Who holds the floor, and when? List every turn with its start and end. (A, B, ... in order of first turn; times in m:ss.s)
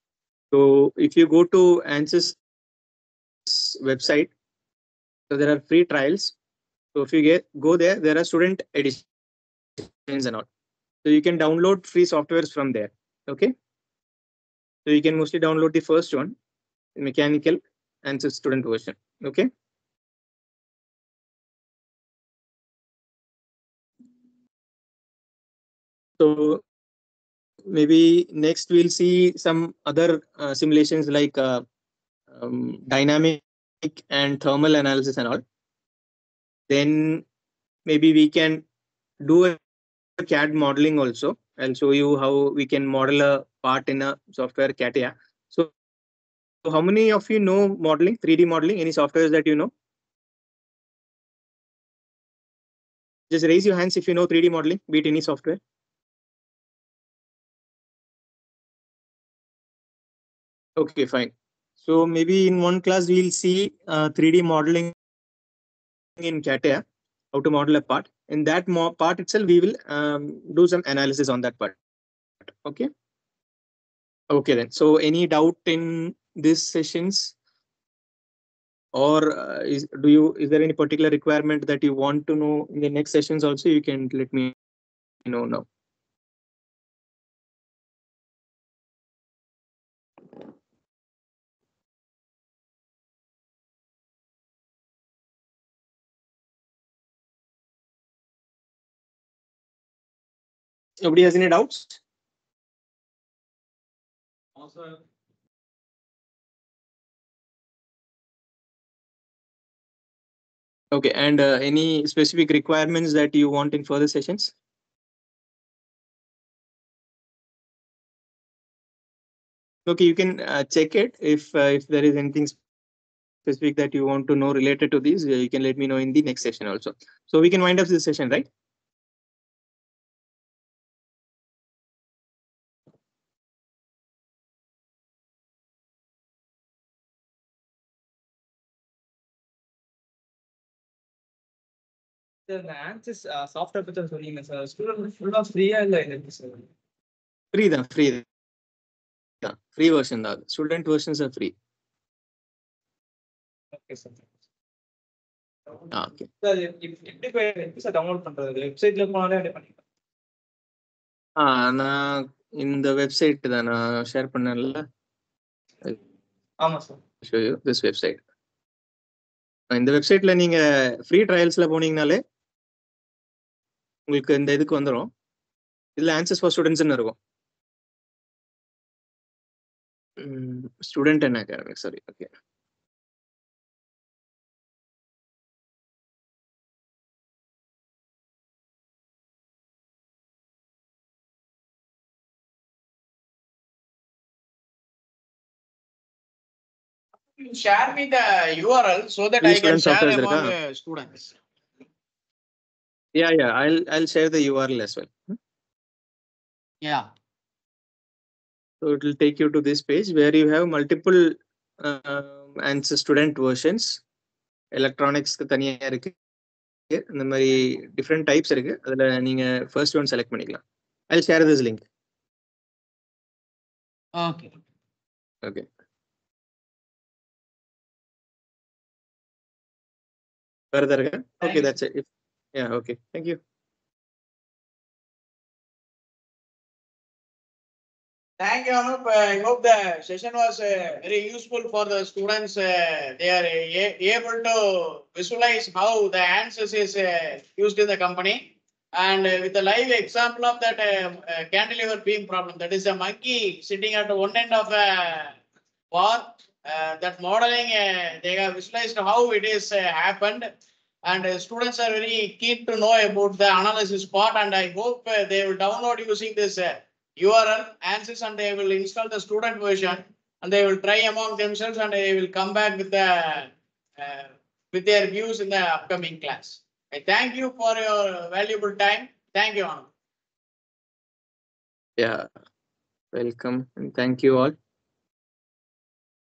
0:00.5-0:02.4 A
0:03.4-0:04.3 A
0:05.3-0:06.3 A
0:06.9-0:09.0 A
0:09.8-0:10.5 A
0:11.0-0:13.5 A
0:14.8-0:16.3 A
0:17.0-0:19.5 A
0:26.2-0:26.6 A
0:27.7-0:31.6 A
0:32.3-0:35.4 A
0:36.7-0:37.2 A
0:37.8-0:38.6 A
0:39.2-0:39.6 A
0:40.2-0:45.7 A
0:46.6-0:49.7 A
0:53.3-0:55.6 A
1:00.8-1:04.9 A
1:06.2-1:11.8 A
1:12.5-1:12.9 A
1:14.3-1:17.3 A
1:18.9-1:24.5 A
1:25.2-1:25.6 A
1:41.0-1:42.0 A
1:44.6-1:45.0 B
1:50.9-1:54.5 A
1:59.8-2:02.6 A
2:03.4-2:08.4 A
2:22.5-2:26.7 B
2:27.5-2:28.2 A
2:29.4-2:31.5 A
2:33.7-2:34.2 B
2:35.9-2:36.3 A
2:36.4-2:39.8 B
2:41.4-2:44.8 A
2:46.6-2:47.0 B
2:47.2-2:48.2 A
2:49.7-2:52.2 A
2:54.1-2:55.1 A
2:56.0-2:57.2 A
3:00.2-3:02.3 A
3:17.3-3:21.3 C
3:19.4-3:20.5 A
3:23.1-3:25.4 A
3:26.8-3:27.1 C
3:28.8-3:34.0 A
3:34.7-3:36.2 A
3:36.9-3:41.8 A
3:44.2-3:44.5 C
3:45.4-3:45.7 A
3:50.7-3:53.4 A
3:51.4-3:51.7 C
3:58.4-4:15.4 C
4:15.9-4:20.5 C
4:21.0-4:39.9 C
4:42.0-4:42.3 A
4:43.1-4:44.6 A